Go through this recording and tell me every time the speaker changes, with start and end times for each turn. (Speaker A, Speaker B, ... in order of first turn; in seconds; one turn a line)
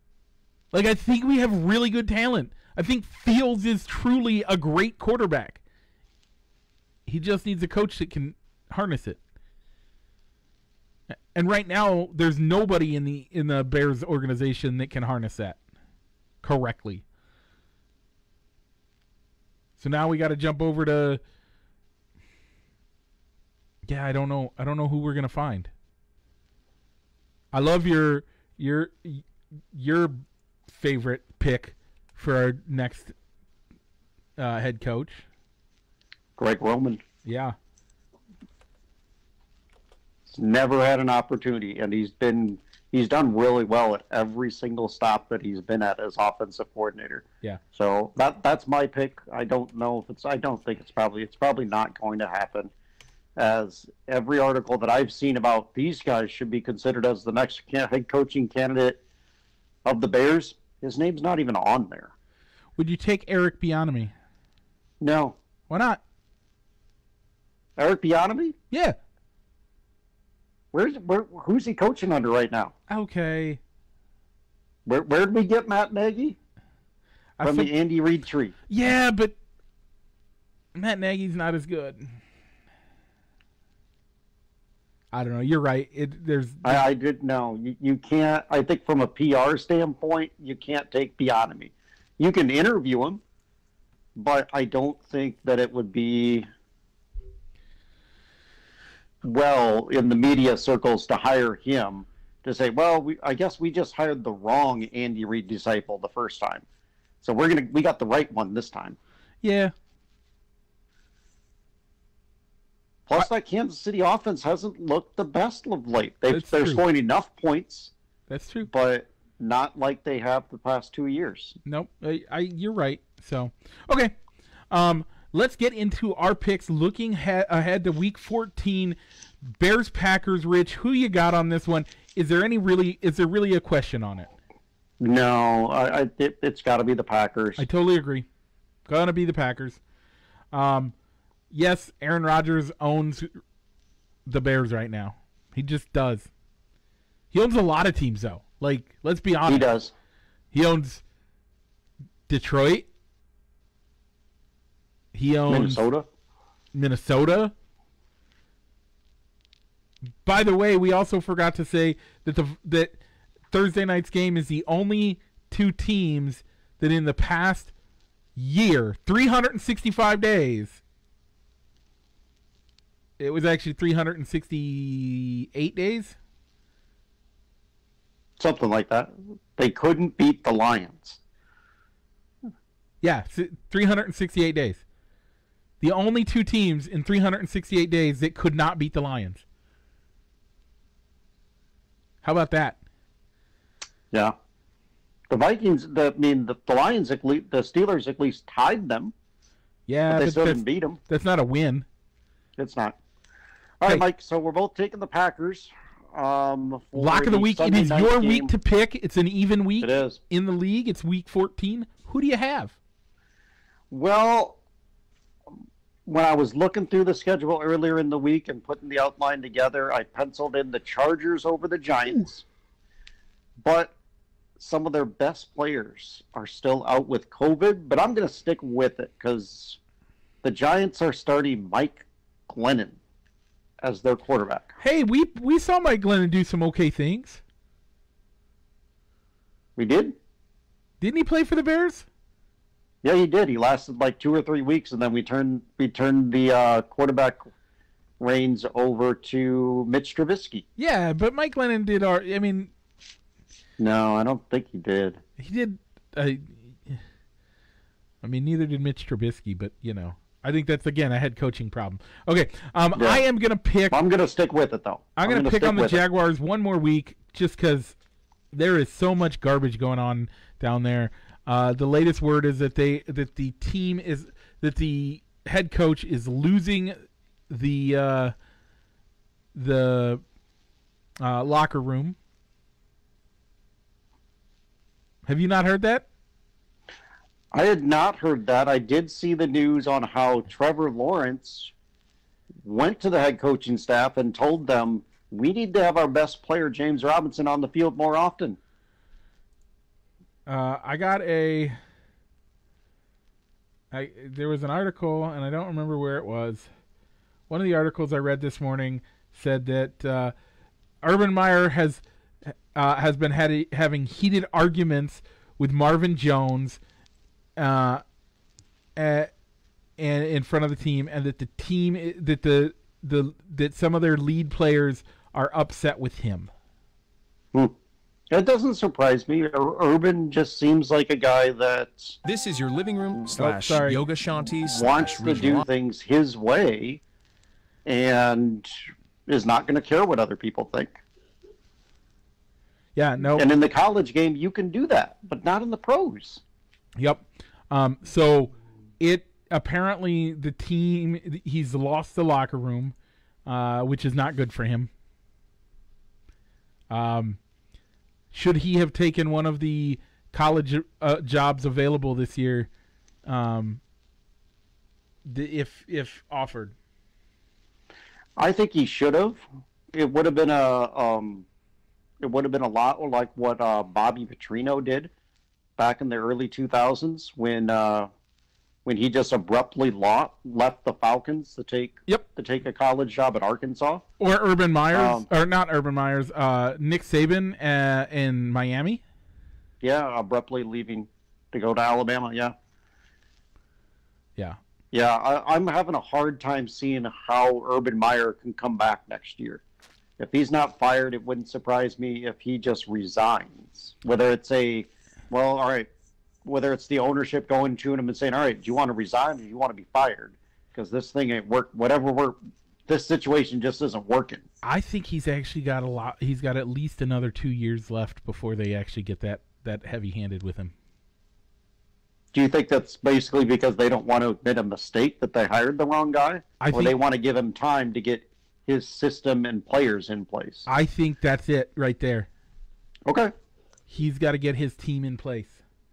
Speaker A: 0.7-5.6
Speaker A: 7.1-9.2
Speaker A: 11.3-15.6
Speaker A: 16.4-17.0
Speaker A: 19.8-21.2
Speaker A: 23.9-25.7
Speaker A: 27.5-33.1
Speaker A: 34.4-35.2
Speaker B: 36.4-37.0
Speaker A: 37.2-37.5
Speaker B: 40.3-52.7
Speaker B: 53.4-59.0
Speaker B: 59.8-62.1
Speaker A: 62.8-64.1
Speaker B: 65.0-65.4
Speaker A: 65.7-66.0
Speaker B: 67.8-68.5
Speaker A: 68.7-69.0
Speaker B: 70.7-72.7
Speaker A: 72.9-73.6
Speaker B: 74.8-76.4
Speaker A: 77.4-77.7
Speaker B: 77.4-78.5
Speaker A: 78.7-79.4
Speaker A: 80.7-82.2
Speaker A: 85.1-86.9
Speaker B: 86.6-93.2
Speaker B: 94.2-96.5
Speaker B: 99.2-106.6
Speaker B: 107.2-109.0
Speaker A: 109.4-109.7
Speaker B: 113.1-117.9
Speaker A: 116.3-116.8
Speaker A: 118.3-118.7
Speaker B: 118.7-121.6
Speaker A: 121.6-124.1
Speaker A: 124.7-134.3
Speaker B: 135.0-137.6
Speaker A: 137.6-138.3
Speaker A: 138.8-139.8
Speaker A: 140.5-140.9
Speaker A: 141.5-143.3
Speaker A: 144.2-146.3
Speaker A: 147.3-149.7
Speaker B: 149.5-149.9
Speaker A: 150.5-151.0
Speaker A: 152.3-152.9
Speaker A: 155.1-155.8
Speaker B: 155.5-156.1
Speaker A: 156.7-157.5
Speaker A: 160.2-163.0
Speaker A: 163.5-167.7
Speaker A: 168.3-170.8
Speaker A: 173.2-176.2
Speaker B: 178.4-181.2
Speaker A: 183.0-184.8
Speaker A: 185.8-189.4
Speaker A: 192.2-192.8
Speaker B: 195.3-199.1
Speaker A: 199.9-201.8
Speaker B: 200.1-201.0
Speaker B: 202.6-203.0
Speaker B: 203.8-208.5
Speaker A: 206.9-212.8
Speaker B: 209.8-210.2
Speaker B: 213.9-214.6
Speaker B: 216.1-222.4
Speaker B: 223.6-223.9
Speaker B: 224.6-229.8
Speaker B: 230.4-233.0
Speaker B: 233.8-234.7
Speaker A: 234.8-237.4
Speaker B: 239.8-240.2
Speaker A: 241.0-242.1
Speaker B: 243.0-247.4
Speaker B: 248.2-250.6
Speaker A: 250.8-252.7
Speaker B: 253.8-255.2
Speaker A: 255.4-257.0
Speaker A: 258.2-264.0
Speaker B: 262.9-263.2
Speaker B: 263.9-266.0
Speaker A: 265.2-267.9
Speaker A: 268.5-277.0
Speaker A: 277.5-278.3
Speaker A: 279.5-280.2
Speaker A: 281.2-282.2
Speaker A: 285.2-286.1
Speaker B: 287.5-291.7
Speaker B: 292.6-298.6
Speaker A: 300.5-301.8
Speaker A: 303.9-306.7
Speaker A: 307.5-310.3
Speaker A: 311.0-316.8
Speaker A: 317.6-318.0
Speaker A: 319.0-319.3
Speaker A: 320.0-326.5
Speaker B: 328.3-332.2
Speaker C: 332.2-335.6
Speaker A: 333.4-334.0
Speaker B: 334.6-337.0
Speaker B: 337.9-338.7
Speaker B: 339.3-341.0
Speaker A: 342.9-343.5
Speaker B: 343.4-346.4
Speaker A: 347.0-352.9
Speaker A: 353.4-354.9
Speaker A: 356.9-357.4
Speaker A: 358.3-362.7
Speaker A: 363.2-363.8
Speaker A: 365.2-366.7
Speaker B: 368.4-371.4
Speaker B: 372.2-375.1
Speaker B: 375.8-378.1
Speaker B: 378.8-384.0
Speaker A: 384.2-389.0
Speaker B: 384.9-385.3
Speaker B: 389.8-392.5
Speaker B: 394.9-399.6
Speaker B: 400.2-405.9
Speaker B: 406.4-414.4
Speaker A: 414.6-420.7
Speaker B: 422.3-430.7
Speaker A: 426.6-427.0
Speaker A: 430.7-432.3
Speaker B: 433.1-433.3
Speaker A: 433.9-435.6